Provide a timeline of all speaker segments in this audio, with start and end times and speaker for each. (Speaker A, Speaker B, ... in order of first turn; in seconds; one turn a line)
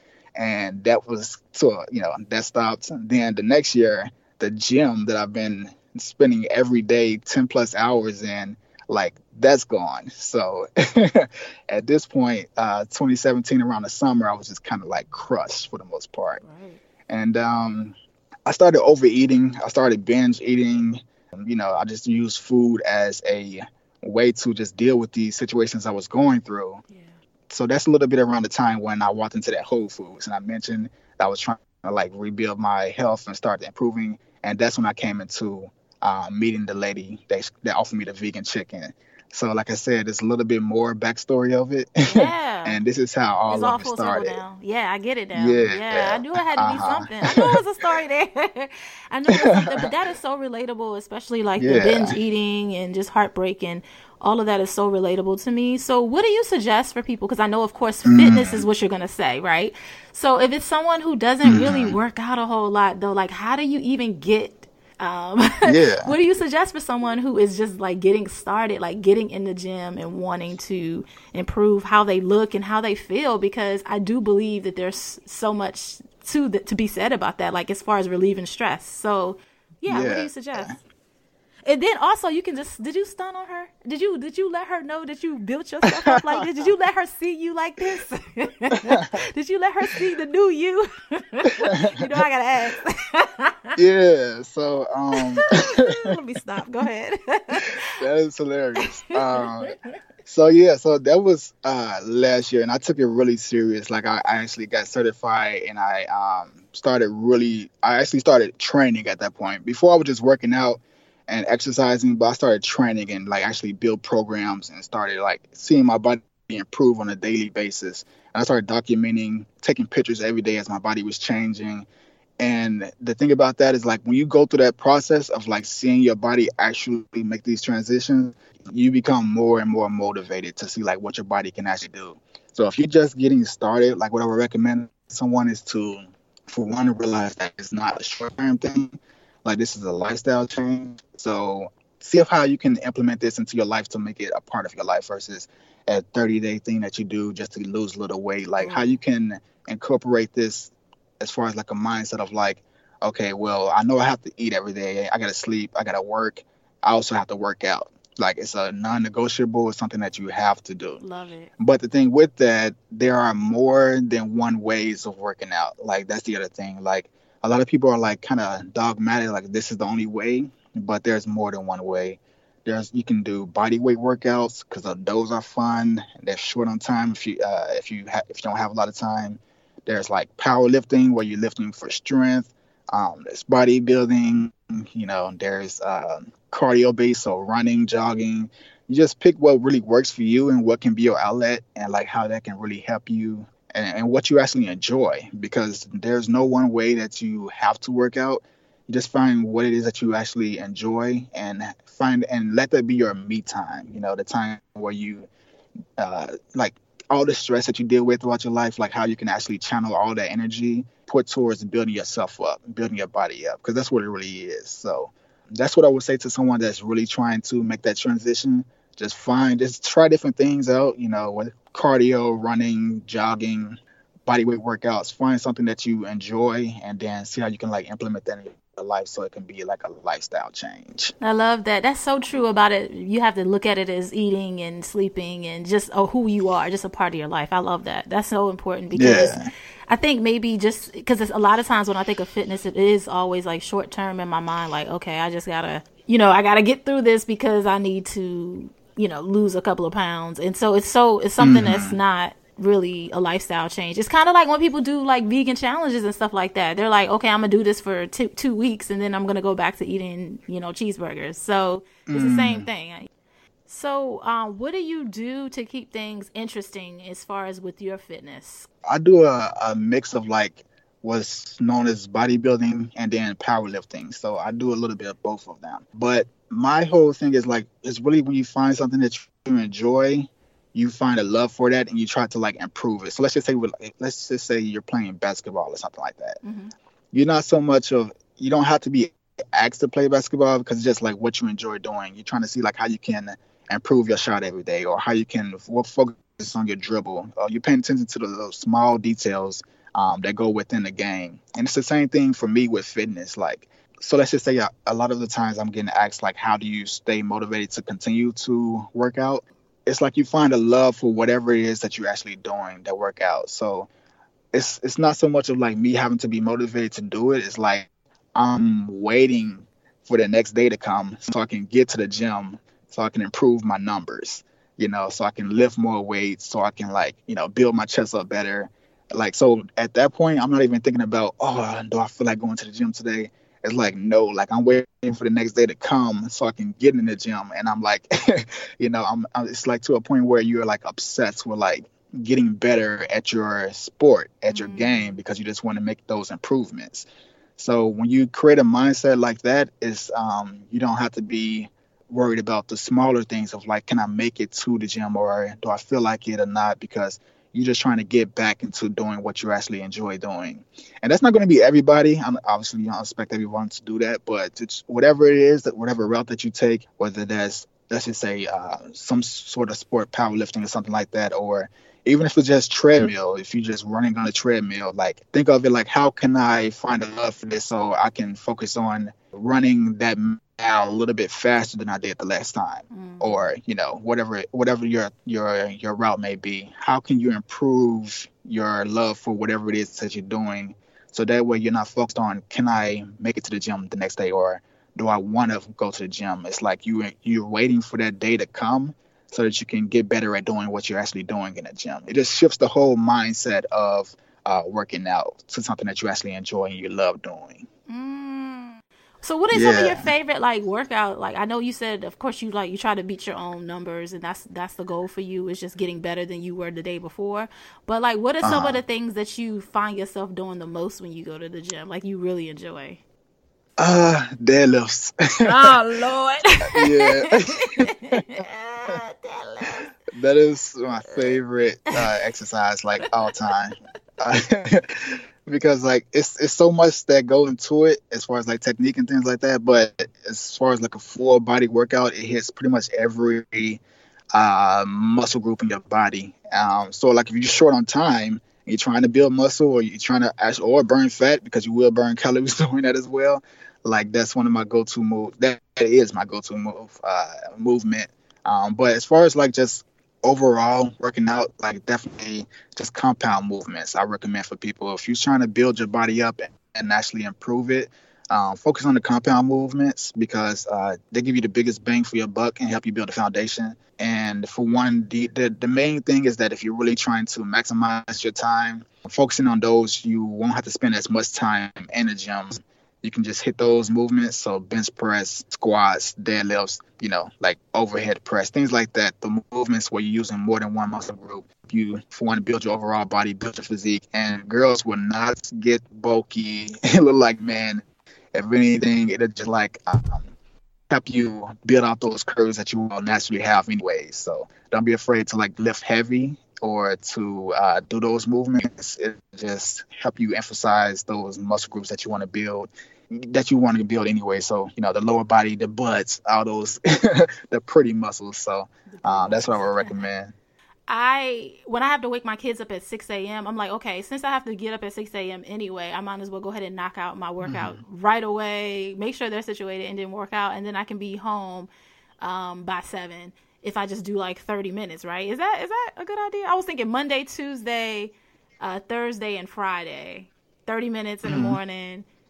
Speaker A: 0.4-16.4
Speaker B: 16.4-16.8
Speaker A: 17.1-17.9
Speaker A: 18.5-26.8
Speaker B: 26.9-27.2
Speaker A: 27.5-44.4
Speaker B: 42.0-42.8
Speaker B: 43.5-80.8
Speaker A: 45.4-47.6
Speaker A: 49.3-49.9
Speaker A: 51.6-52.2
Speaker A: 58.1-58.7
Speaker A: 61.5-62.0
Speaker A: 65.6-66.1
Speaker A: 79.9-80.8
Speaker B: 81.7-93.7
Speaker A: 85.9-86.4
Speaker A: 93.8-96.0
Speaker B: 95.2-97.8
Speaker A: 97.7-121.9
Speaker B: 98.8-99.7
Speaker A: 122.4-161.0
Speaker B: 148.6-149.0
Speaker B: 161.0-161.5
Speaker A: 161.6-205.3
Speaker A: 206.0-231.1
Speaker B: 231.2-239.3
Speaker A: 238.9-239.5
Speaker B: 239.9-263.1
Speaker A: 251.4-252.0
Speaker A: 262.1-262.7
Speaker B: 263.7-268.7
Speaker A: 268.9-286.4
Speaker B: 286.4-286.7
Speaker A: 287.1-313.9
Speaker A: 314.5-347.1
Speaker B: 344.5-345.2
Speaker A: 347.6-407.7
Speaker B: 382.9-383.4
Speaker B: 407.9-423.0
Speaker A: 409.5-410.1
Speaker A: 418.4-418.8
Speaker A: 423.8-425.7
Speaker B: 425.4-429.9
Speaker A: 426.7-428.2
Speaker A: 430.1-443.8
Speaker B: 431.1-431.4
Speaker A: 444.3-500.3
Speaker A: 500.9-520.3
Speaker B: 518.9-520.0
Speaker B: 520.9-531.7
Speaker A: 527.4-527.8
Speaker B: 532.2-542.1
Speaker A: 541.3-541.6